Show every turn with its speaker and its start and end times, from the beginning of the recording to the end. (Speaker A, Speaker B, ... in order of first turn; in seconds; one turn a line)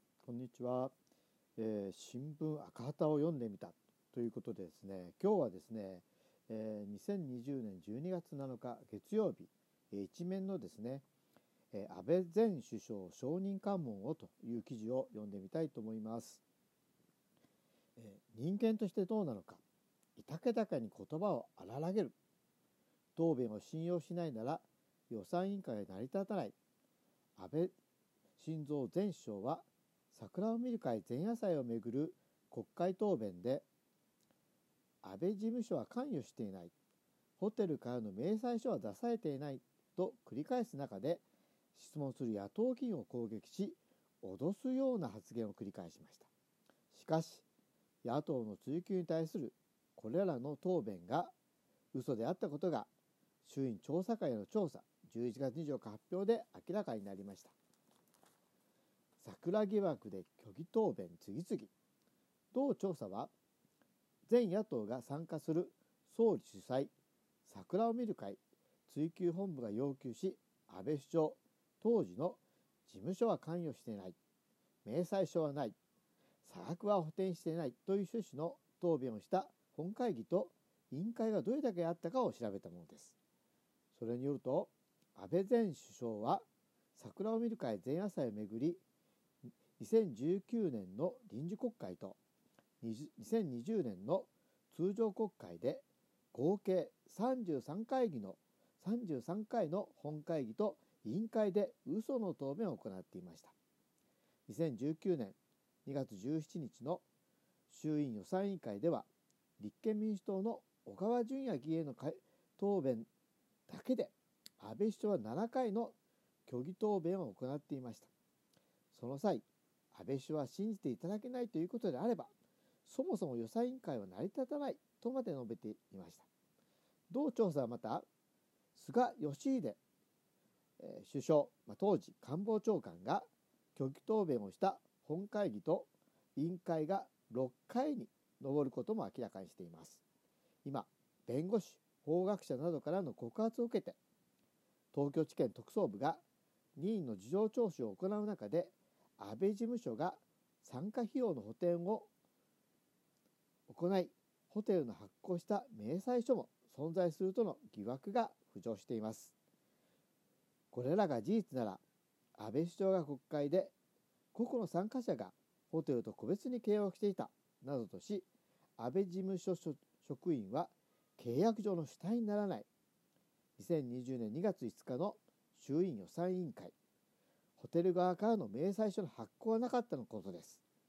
Speaker A: 0.2-0.9
Speaker A: 1.6-11.1
Speaker A: 11.7-16.4
Speaker A: 18.0-19.6
Speaker A: 20.1-22.1
Speaker A: 23.1-26.5
Speaker A: 27.4-27.7
Speaker A: 28.4-33.6
Speaker A: 35.0-36.7
Speaker A: 37.4-41.2
Speaker A: 41.7-46.3
Speaker A: 46.9-47.4
Speaker A: 48.0-51.3
Speaker A: 51.9-52.9
Speaker A: 53.4-57.5
Speaker A: 59.2-61.7
Speaker A: 62.5-63.3
Speaker A: 64.3-66.9
Speaker A: 67.4-74.2
Speaker A: 74.8-75.8
Speaker A: 76.4-83.2
Speaker A: 83.9-88.8
Speaker A: 89.8-92.2
Speaker A: 92.8-103.5
Speaker A: 104.5-107.0
Speaker A: 107.7-109.1
Speaker A: 109.6-113.1
Speaker A: 113.7-115.9
Speaker A: 116.5-118.1
Speaker A: 118.9-122.3
Speaker A: 122.8-126.3
Speaker A: 127.1-128.1
Speaker A: 128.7-129.8
Speaker A: 130.8-140.0
Speaker A: 140.6-144.0
Speaker A: 144.9-146.2
Speaker A: 146.8-152.1
Speaker A: 153.7-159.3
Speaker A: 160.7-161.8
Speaker A: 162.3-163.7
Speaker A: 164.3-168.3
Speaker A: 168.8-172.7
Speaker A: 173.6-176.7
Speaker A: 177.6-180.6